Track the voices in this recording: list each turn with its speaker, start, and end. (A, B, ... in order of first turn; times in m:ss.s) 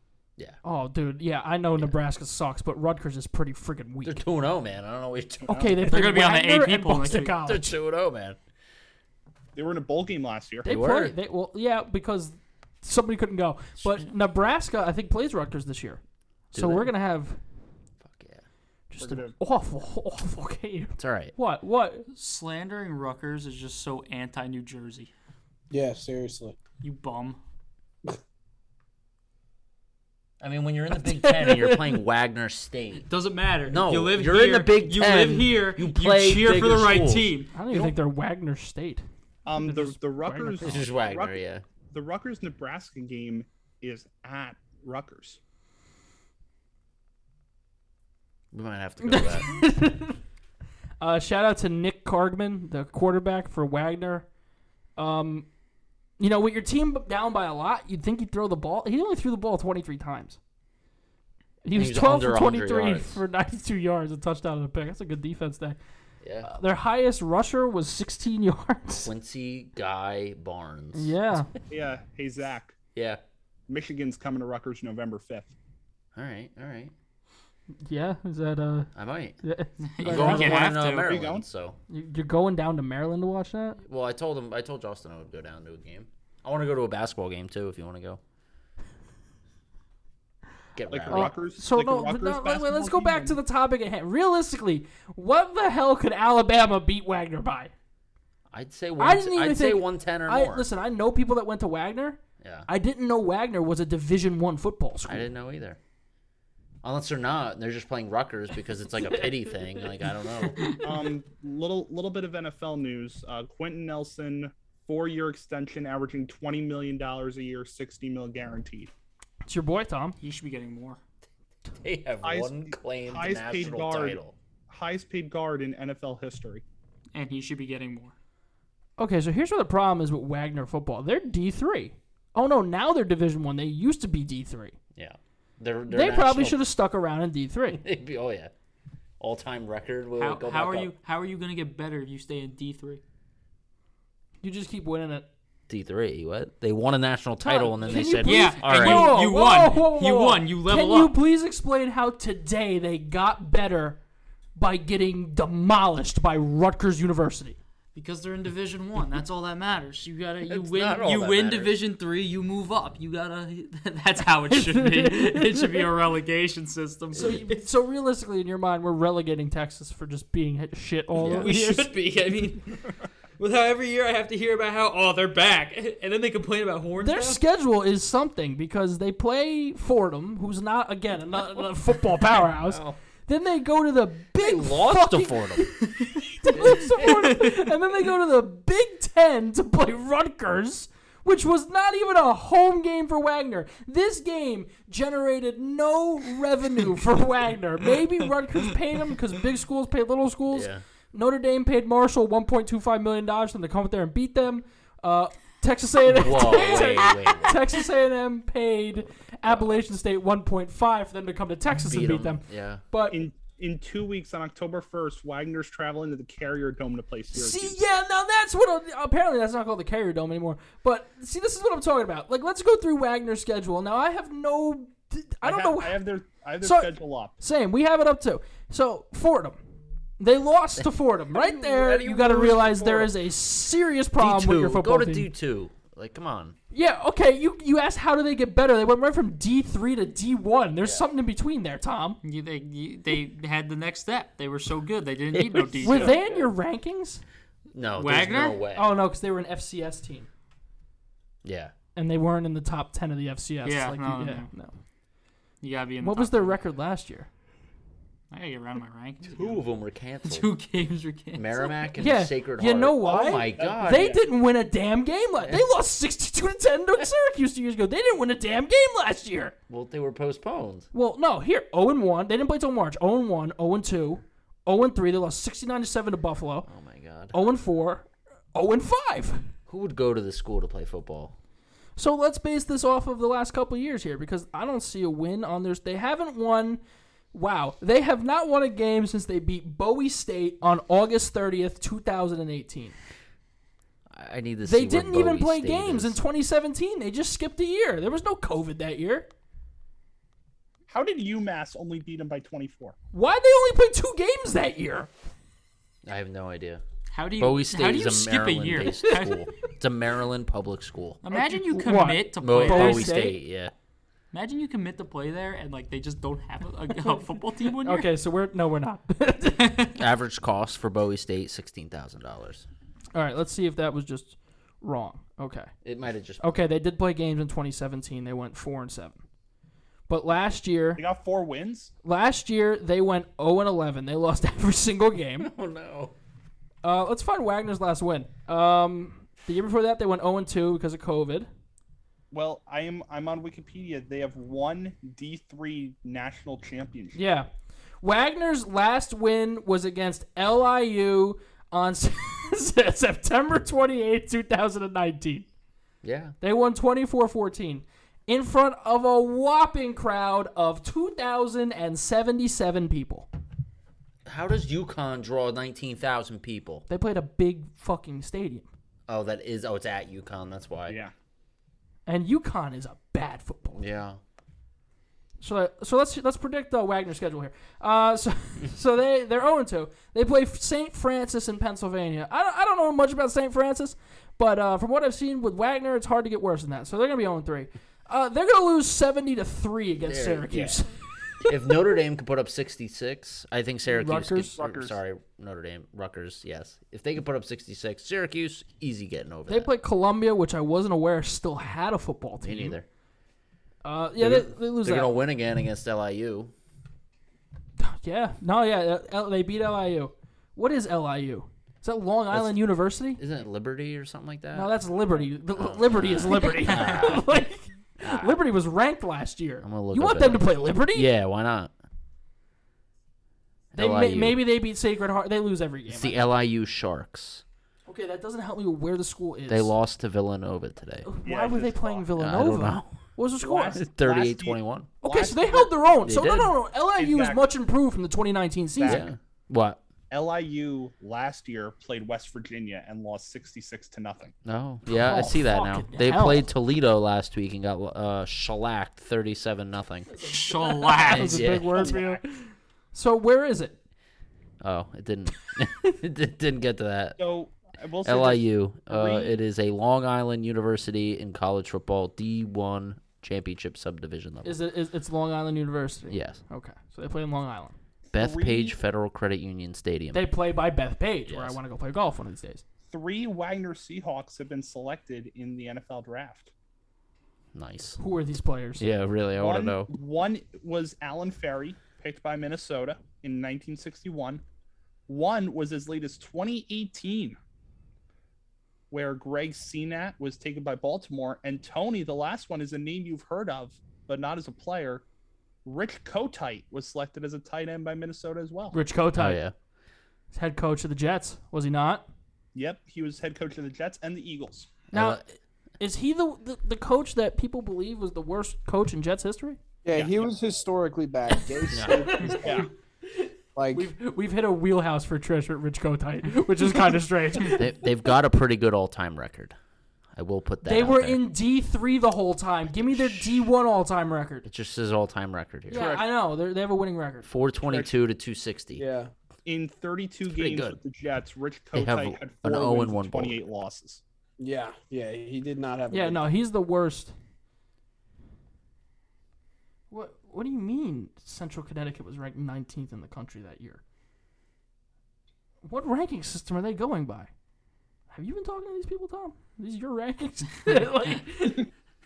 0:00.6-0:04.2 A
0:04.0-0:05.8 B
0:05.5-0:05.7 C
0:05.5-0:07.8 A
0:05.9-0:07.4 D
0:07.4-0:08.4 B
0:09.6-0:10.7 C
0:10.6-0:11.2 B
0:10.6-0:16.0 A
0:16.5-0:16.9 B
0:16.5-0:17.4 A
0:18.0-0:18.4 B
0:18.9-0:22.1 A
0:19.0-0:19.4 C
0:21.0-0:21.3 B
0:22.1-0:25.1 D
0:25.7-0:26.6 E
0:26.8-0:27.4 D
0:30.4-0:33.1 B
0:30.9-0:32.0 A
0:33.1-0:37.5 D
0:33.7-0:38.0 B
0:37.5-0:39.0 A
0:39.5-0:41.4 C
0:39.6-0:40.9 A
0:40.6-0:41.6 B
0:41.9-0:45.4 C
0:48.5-0:49.5 B
0:49.0-0:50.2 A
0:51.0-0:54.3 A
0:55.0-0:55.5 A
0:56.2-1:00.4 A
1:01.6-1:05.8 A
1:01.7-1:03.2 B
1:06.2-1:06.5 B
1:06.4-1:09.1 A
1:09.0-1:11.6 B
1:11.0-1:11.5 A
1:11.7-1:12.8 C
1:13.0-1:13.2 B
1:13.7-1:15.5 C
1:16.2-1:16.9 B
1:17.8-1:20.7 A
1:19.0-1:19.4 B
1:19.8-1:21.2 D
1:20.0-1:21.8 B
1:21.0-1:21.4 C
1:21.9-1:23.8 A
1:23.8-1:28.2 B
1:30.8-1:31.3 B
1:30.9-1:33.4 C
1:31.1-1:37.7 A
1:38.5-1:40.7 B
1:39.0-1:45.3 A
1:42.4-1:42.7 B
1:45.1-1:45.8 B
1:46.8-1:50.8 B
1:50.6-1:50.8 D
1:50.8-1:58.9 C
1:59.5-2:00.2 A
2:00.2-2:01.0 D
2:01.8-2:04.4 B
2:02.2-2:06.6 C
2:07.1-2:08.1 D
2:09.0-2:14.8 A
2:15.0-2:16.6 B
2:15.9-2:17.8 A
2:17.7-2:18.5 B
2:19.2-2:20.9 B
2:20.2-2:23.0 D
2:24.4-2:25.3 A
2:25.7-2:29.1 B
2:27.4-2:34.0 A
2:28.2-2:31.2 D
2:34.6-2:37.6 A
2:38.0-2:47.6 D
2:40.5-2:41.8 B
2:44.5-2:45.9 A
2:47.2-2:51.9 A
2:51.2-2:51.5 B
2:51.3-2:52.8 D
2:53.4-2:57.4 D
2:57.0-3:33.2 A
3:02.5-3:03.0 B
3:04.4-3:05.8 B
3:06.5-3:07.3 B
3:07.1-3:07.5 D
3:20.5-3:20.8 B
3:26.1-3:27.8 B
3:29.4-3:29.8 B
3:31.9-3:32.8 B
3:33.1-3:37.8 C
3:37.3-3:46.0 A
3:45.4-3:47.4 C
3:46.6-3:49.6 A
3:50.2-3:55.3 A
3:50.8-3:53.1 B
3:54.2-3:56.6 B
3:56.7-4:02.2 A
4:02.2-4:06.2 D
4:05.3-4:06.5 B
4:05.8-4:07.2 A
4:07.7-4:08.9 B
4:08.0-4:08.6 D
4:08.7-4:10.3 A
4:11.4-4:11.7 B
4:12.0-4:14.8 A
4:13.6-4:14.5 D
4:15.6-4:16.6 D
4:16.0-4:17.3 A
4:18.3-4:19.6 D
4:19.2-4:20.5 B
4:20.2-4:21.8 D
4:21.3-4:24.2 B
4:22.0-4:29.6 A
4:23.5-4:24.0 C
4:25.4-4:25.6 B
4:29.7-4:30.9 B
4:30.9-4:36.7 A
4:36.7-4:37.4 B
4:37.3-4:39.5 A
4:39.7-4:41.4 B
4:42.0-4:46.8 A
4:47.3-4:53.0 A
4:54.1-4:56.2 B
4:54.6-4:59.3 A
5:00.9-5:03.0 C
5:03.1-5:05.1 A
5:06.0-5:06.8 B
5:07.1-5:09.5 D
5:07.4-5:11.2 B
5:11.2-5:13.2 D
5:11.4-5:13.4 A
5:12.4-5:13.7 B
5:14.3-5:18.1 D
5:17.8-5:19.9 A
5:19.6-5:19.9 D
5:20.0-5:22.7 B
5:23.1-5:25.7 A
5:25.8-5:26.6 B
5:26.4-5:29.2 A
5:30.1-5:31.0 A
5:31.0-5:31.9 C
5:32.0-5:35.5 A
5:35.4-5:36.2 B
5:36.8-5:41.5 A
5:42.3-5:47.2 C
5:47.2-5:47.5 A
5:48.0-5:55.5 A
5:56.0-5:56.4 B
5:56.4-6:03.3 A
6:04.2-6:06.8 B
6:06.9-6:08.7 A
6:09.1-6:11.0 B
6:10.9-6:11.1 C
6:12.1-6:13.8 A
6:13.8-6:14.2 B
6:15.4-6:31.0 A
6:30.0-6:30.8 B
6:31.4-6:39.7 B
6:33.9-6:34.6 A
6:34.6-6:35.0 C
6:39.5-6:42.8 A
6:42.4-6:42.9 B
6:43.8-6:45.1 A
6:44.2-6:46.5 B
6:47.8-6:53.2 A
6:52.3-6:52.6 B
6:53.2-6:57.4 B
6:54.5-7:01.1 A
6:58.0-6:58.4 B
6:59.6-7:01.7 B
7:03.7-7:04.4 B
7:03.8-7:06.2 A
7:05.9-7:07.4 B
7:07.9-7:09.7 A
7:09.5-7:11.1 B
7:11.0-7:13.8 A
7:11.2-7:12.1 C
7:12.1-7:13.0 B
7:13.4-7:15.7 C
7:13.7-7:14.9 B
7:15.0-7:19.1 A
7:16.0-7:16.5 B
7:17.0-7:17.5 C
7:18.8-7:19.1 C
7:18.8-7:19.8 B
7:20.1-7:24.4 C
7:24.4-7:30.1 B
7:24.9-7:26.5 A
7:30.1-7:33.8 A
7:30.2-7:31.4 D
7:31.1-7:31.9 B
7:31.4-7:32.2 C
7:34.6-7:37.2 B
7:37.2-7:39.4 C
7:38.0-7:44.6 B
7:44.4-7:47.8 A
7:46.1-7:46.4 B
7:48.1-7:48.8 C
7:48.1-7:50.2 B
7:50.1-7:52.6 A
7:51.3-7:51.6 B
7:52.9-7:56.5 C
7:57.5-7:58.0 B
7:58.0-7:58.8 A
7:58.8-7:59.9 B
7:59.4-8:04.4 C
8:05.1-8:07.4 C
8:08.9-8:15.0 C
8:15.6-8:18.8 C
8:18.7-8:19.4 A
8:19.2-8:19.5 B
8:20.3-8:22.1 A
8:22.6-8:24.7 C
8:24.9-8:25.2 B
8:24.9-8:29.6 A
8:29.8-8:32.7 E
8:29.9-8:30.4 C
8:31.7-8:32.2 B
8:31.9-8:32.7 A
8:32.4-8:32.7 C
8:33.2-8:37.6 A
8:33.6-8:33.9 E
8:37.5-8:39.6 B
8:40.2-8:41.2 B
8:40.6-8:44.5 A
8:42.8-8:43.3 B
8:44.4-8:46.0 B
8:45.7-8:47.3 A
8:47.2-8:48.8 B
8:47.6-8:48.0 C
8:48.8-8:49.1 E
8:49.4-8:54.0 C
8:50.3-8:50.8 B
8:51.7-8:53.4 B
8:54.4-8:56.2 E
8:55.9-8:57.1 A
8:59.9-9:03.8 A
9:05.6-9:07.3 A
9:08.1-9:11.7 A